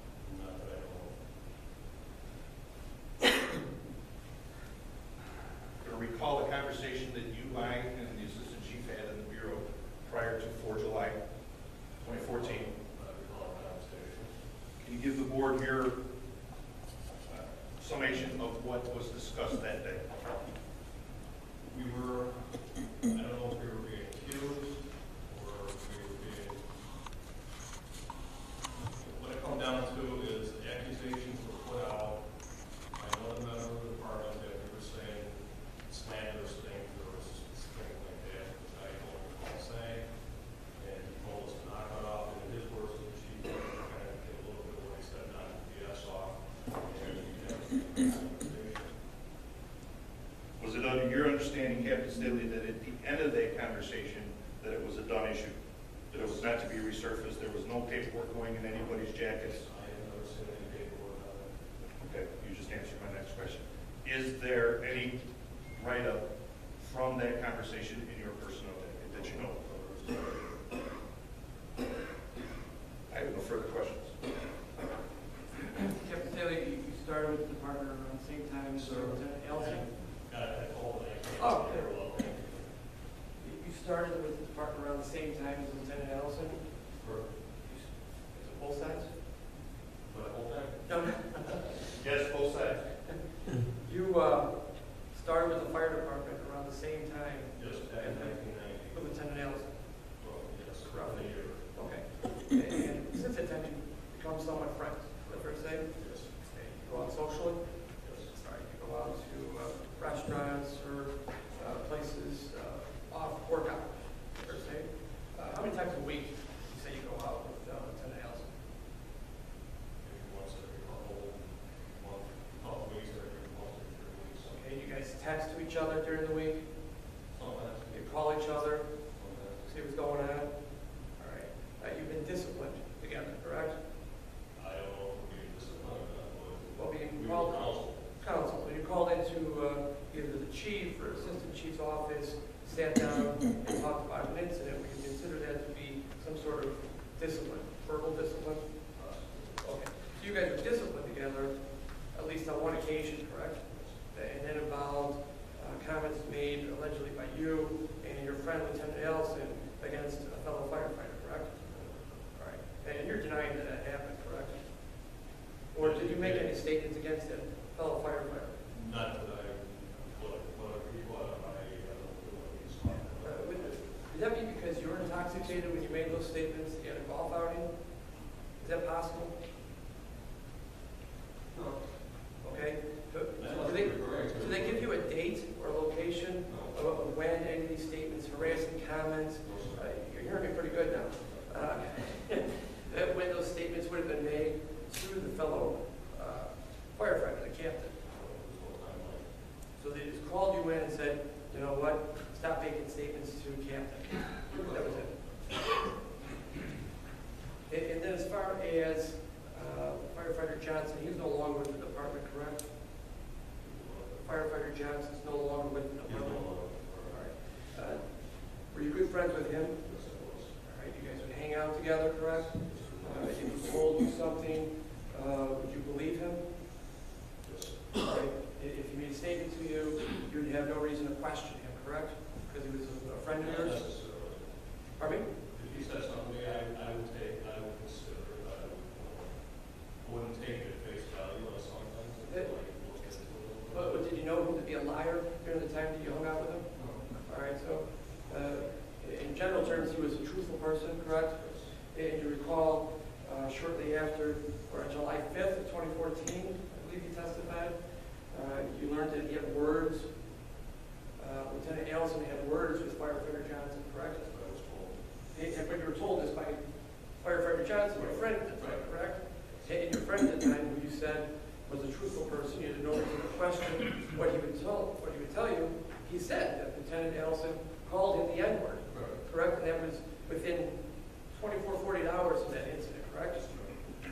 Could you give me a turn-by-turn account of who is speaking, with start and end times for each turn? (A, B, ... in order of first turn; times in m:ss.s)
0:00.2-0:01.1 A
0:05.8-0:11.2 B
0:12.0-0:12.6 B
0:12.0-0:14.3 A
0:14.8-0:16.0 B
0:17.3-0:20.2 B
0:21.7-0:26.6 A
0:28.9-0:32.2 A
0:32.9-0:40.1 A
0:40.7-0:48.9 A
0:50.6-0:55.6 B
0:56.1-0:59.6 B
0:59.6-1:01.5 A
1:02.0-1:05.2 B
1:05.7-1:06.2 B
1:06.8-1:09.6 B
1:09.2-1:10.6 A
1:13.1-1:14.2 B
1:15.6-1:19.9 C
1:18.7-1:22.7 A
1:21.4-1:21.9 C
1:23.4-1:26.9 C
1:27.0-1:27.3 A
1:27.5-1:29.1 C
1:30.0-1:31.6 A
1:30.8-1:31.9 C
1:31.9-1:32.9 B
1:33.7-1:39.8 C
1:37.5-1:39.0 A
1:40.2-1:41.6 A
1:40.8-1:47.8 C
1:45.9-1:46.3 A
1:48.0-1:48.3 A
1:48.3-1:58.5 C
2:00.0-2:04.6 A
2:04.5-2:06.6 C
2:07.3-2:08.0 A
2:07.9-2:08.9 C
2:09.2-2:09.7 A
2:09.6-2:10.5 C
2:11.2-2:13.8 C
2:14.6-2:18.0 A
2:16.8-2:28.7 C
2:28.9-2:29.6 A
2:29.6-2:31.5 C
2:32.1-2:41.6 C
2:41.6-2:42.1 A
2:42.3-2:44.6 C
2:45.7-2:48.6 C
2:45.8-2:46.5 A
2:48.7-2:53.9 A
2:53.2-2:57.7 C
2:58.6-2:59.4 C
3:01.5-3:01.8 A
3:02.4-3:18.0 C
3:03.4-3:04.9 A
3:06.5-3:06.8 A
3:09.4-3:09.8 A
3:18.0-3:19.3 A
3:19.8-3:25.7 C
3:24.5-3:25.0 A
3:27.7-3:32.7 C
3:33.6-3:34.2 A
3:34.2-3:39.8 C
3:36.0-3:37.3 A
3:39.8-3:40.5 A
3:40.6-3:46.4 C
3:42.3-3:43.9 A
3:47.4-3:48.0 A
3:48.0-3:53.8 C
3:53.3-3:54.5 A
3:55.0-3:55.3 C
3:55.5-4:03.9 A
4:03.7-4:20.1 C
4:06.7-4:07.0 A
4:11.4-4:11.7 A
4:21.2-4:24.2 C
4:24.2-4:25.0 A
4:25.3-4:26.6 C
4:27.2-4:40.7 C
4:28.0-4:29.7 A
4:38.9-4:39.2 A
4:41.3-4:43.4 C
4:43.4-4:43.7 A